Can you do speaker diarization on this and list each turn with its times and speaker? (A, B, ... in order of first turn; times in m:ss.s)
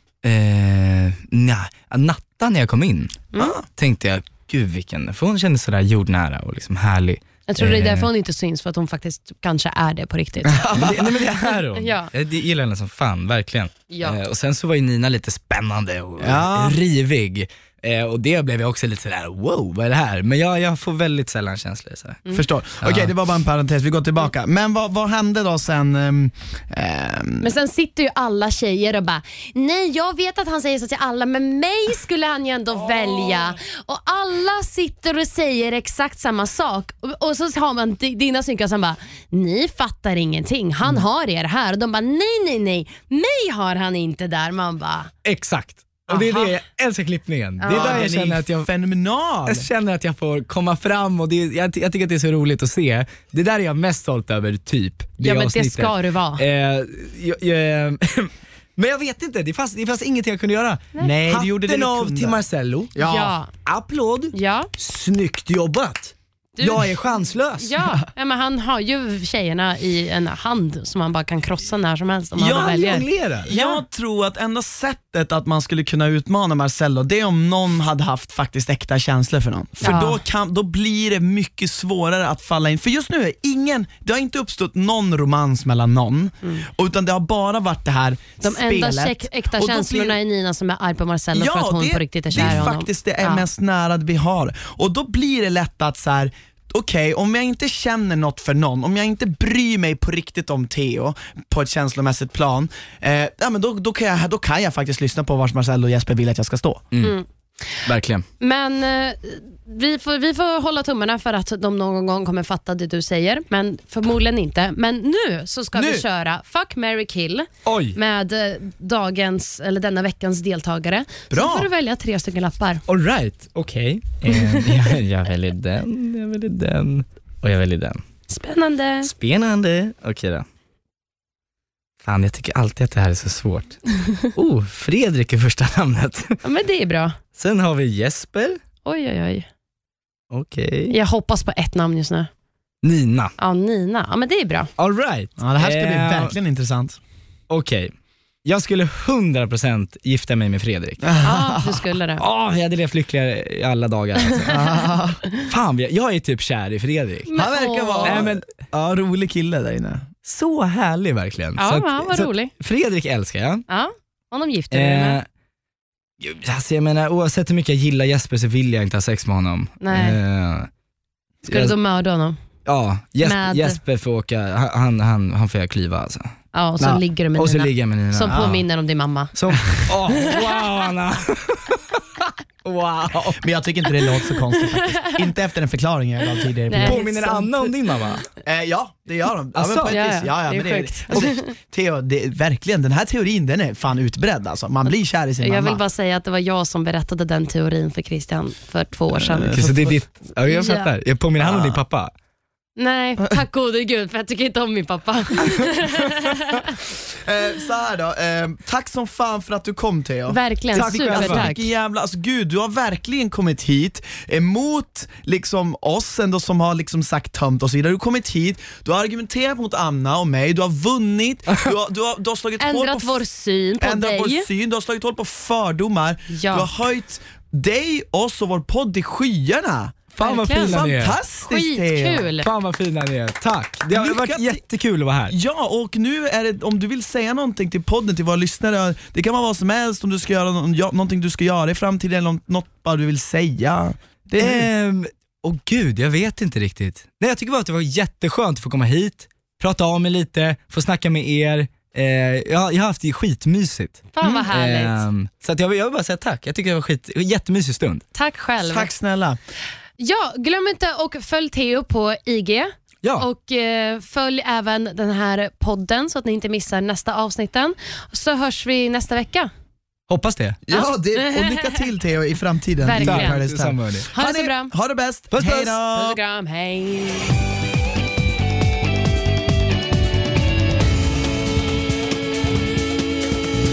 0:00.2-0:03.2 A
0:03.4-0:03.7 B
0:03.8-0:08.1 A
0:07.5-0:12.1 C
0:10.5-0:11.0 B
0:10.7-0:22.2 A
0:13.9-0:14.2 C
0:16.2-0:16.8 B
0:22.3-0:27.5 B
0:22.8-0:23.1 A
0:27.4-0:45.1 C
0:45.2-0:48.7 A
0:46.1-0:46.6 C
0:47.6-0:48.1 C
0:47.7-0:49.7 B
0:49.5-1:03.0 A
0:55.2-0:56.4 C
1:01.0-1:02.4 B
1:02.9-1:03.4 B
1:03.0-1:03.5 C
1:03.6-1:07.7 A
1:04.3-1:04.7 C
1:06.6-1:13.8 C
1:12.4-1:30.2 B
1:12.4-1:13.5 A
1:19.8-1:20.2 C
1:28.4-1:33.4 C
1:31.3-1:46.8 B
1:46.9-1:47.2 A
1:47.0-1:47.8 C
1:47.8-1:48.2 A
1:48.4-2:02.8 C
1:55.8-1:56.0 B
1:57.6-1:58.0 A
2:01.3-2:01.7 B
2:02.9-2:08.0 A
2:04.3-2:04.7 C
2:08.3-2:09.1 C
2:09.0-2:10.5 A
2:12.0-2:13.8 A
2:14.3-2:16.4 A
2:16.4-2:17.2 C
2:17.4-2:18.6 A
2:18.8-2:19.5 C
2:20.3-2:21.0 A
2:20.9-2:22.3 C
2:22.8-2:23.3 A
2:23.4-2:24.7 C
2:24.8-2:26.3 A
2:25.4-2:27.0 B
2:27.5-2:27.9 A
2:28.4-2:31.2 A
2:31.0-2:31.8 B
2:31.2-2:32.2 C
2:32.2-2:34.5 A
2:34.5-2:35.2 B
2:35.5-2:37.3 A
2:37.3-2:38.2 C
2:37.4-2:40.1 B
2:38.0-2:38.4 A
2:40.3-2:43.6 A
2:41.6-2:42.5 C
2:43.7-2:45.2 C
2:44.7-2:45.2 A
2:46.2-2:50.7 A
2:49.8-2:50.2 C
2:51.5-2:51.8 A
2:51.5-2:52.4 C
2:52.7-2:58.6 A
2:53.2-2:53.8 C
2:56.5-2:59.3 C
2:58.3-2:58.6 B
2:59.4-3:02.0 A
3:02.6-3:03.4 A
3:03.3-3:07.0 B
3:04.7-3:05.2 C
3:06.7-3:07.8 C
3:06.8-3:08.2 A
3:08.4-3:15.8 B
3:09.6-3:10.0 A
3:09.9-3:11.5 C
3:14.8-3:19.6 C
3:19.1-3:19.9 B
3:19.5-3:22.1 A
3:20.5-3:20.9 C
3:21.4-3:21.8 B
3:22.8-3:26.8 C
3:27.1-3:43.2 B
3:30.3-3:31.7 C
3:30.7-3:31.5 A
3:42.6-3:44.5 C
3:43.8-3:52.3 B
3:46.3-3:46.7 C
3:50.2-3:51.2 A
3:50.2-3:50.8 C
3:51.4-3:52.5 C
3:52.4-3:55.4 A
3:53.9-3:54.6 B
3:55.3-4:04.7 B
4:04.4-4:18.0 A
4:14.1-4:15.0 C
4:18.1-4:18.9 C
4:18.6-4:19.4 B
4:20.0-4:29.5 C
4:30.1-4:30.6 A
4:30.7-4:36.2 B
4:30.7-4:31.8 C
4:32.8-4:33.4 C
4:33.0-4:34.1 A
4:34.2-4:34.7 C
4:35.3-4:35.7 A
4:35.4-4:37.3 C